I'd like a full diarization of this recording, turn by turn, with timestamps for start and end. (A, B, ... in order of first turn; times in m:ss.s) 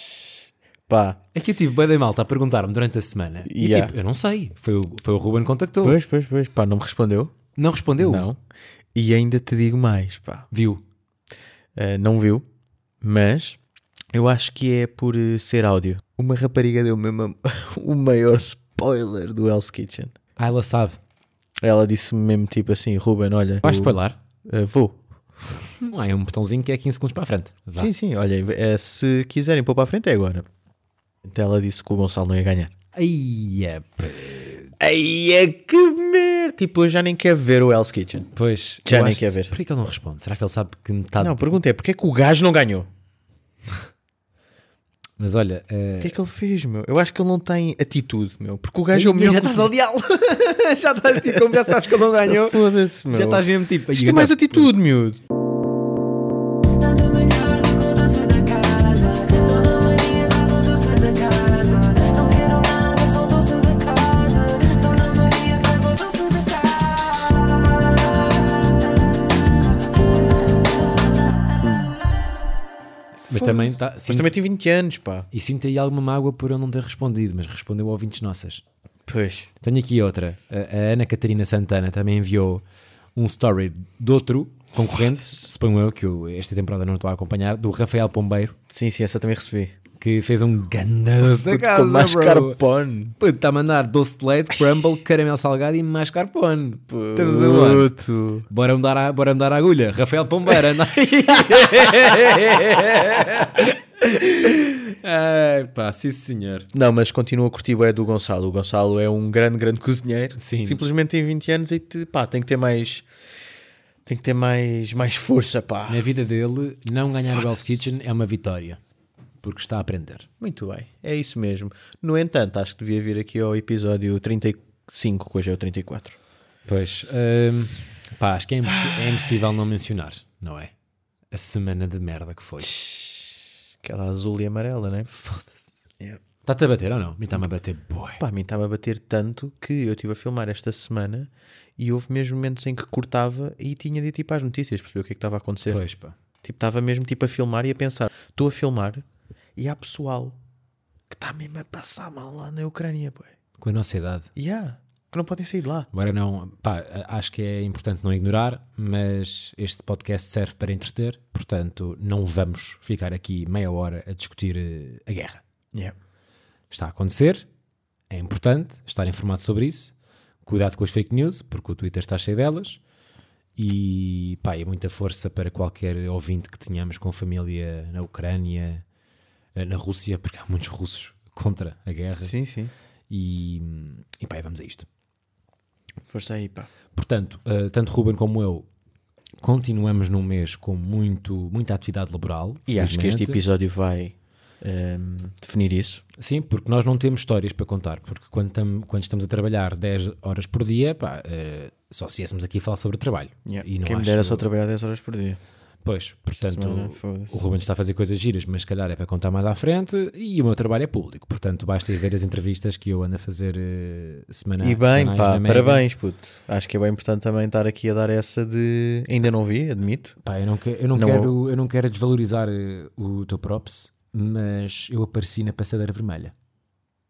0:00.9-0:01.2 A
0:01.3-0:06.0 B
0:03.5-0:03.9 A
0:05.8-0:07.3 A
0:07.6-0:08.3 B
0:08.0-0:08.4 A
0:09.0-0:10.5 A
0:10.5-0:10.8 B
0:11.8-0:12.4 A
0:13.0-0:13.6 A
0:14.1-0:20.1 A
0:20.4-0:21.0 B
0:21.6-0:24.0 A
0:23.6-0:24.2 B
0:24.5-0:25.0 A
0:25.9-0:27.9 B
0:27.8-0:30.4 A
0:31.3-0:32.7 A
0:32.9-0:34.7 B
0:34.8-0:38.3 A
0:38.3-0:41.6 B
0:38.8-0:39.5 A
0:41.2-0:42.9 A
0:45.2-0:46.1 B
0:46.0-0:49.7 A
0:48.9-0:52.6 B
0:51.3-0:51.5 A
0:52.2-0:55.2 A
0:53.1-0:54.7 B
0:56.8-1:07.2 C
1:13.3-1:14.3 B
1:13.3-1:15.3 A
1:15.3-1:18.6 B
1:19.1-1:19.5 A
1:19.6-1:22.6 B
1:23.2-1:28.5 B
1:28.7-1:29.7 A
1:30.0-1:32.6 B
1:31.5-1:33.1 A
1:33.2-1:37.9 B
1:36.9-1:38.4 A
1:38.5-1:43.7 B
1:44.4-1:46.7 B
1:46.7-1:53.0 A
1:50.4-1:50.8 B
1:54.0-1:56.0 A
1:55.9-1:58.8 B
1:59.4-2:00.3 B
2:00.4-2:06.1 A
2:06.7-2:10.7 B
2:08.7-2:09.4 A
2:11.3-2:12.7 B
2:12.6-2:15.1 A
2:15.1-2:15.6 B
2:16.4-2:18.2 B
2:18.2-2:25.8 A
2:25.7-2:26.1 B
2:26.4-2:29.0 A
2:29.6-2:30.4 A
2:31.1-2:33.3 A
2:33.6-2:34.3 B
2:34.4-2:35.9 A
2:35.9-2:45.4 B
2:46.7-2:47.5 B
2:48.1-2:49.9 B
2:50.4-2:52.8 B
2:53.6-2:58.8 B
2:59.5-3:02.3 B
3:02.2-3:02.7 A
3:03.1-3:04.9 B
3:06.1-3:06.7 A
3:06.9-3:08.7 B
3:09.4-3:13.4 B
3:12.7-3:16.0 A
3:16.2-3:24.4 B
3:23.4-3:25.4 A
3:25.8-3:35.8 B
3:26.3-3:27.3 A
3:34.6-3:40.2 A
3:40.2-3:46.3 B
3:40.9-3:41.3 A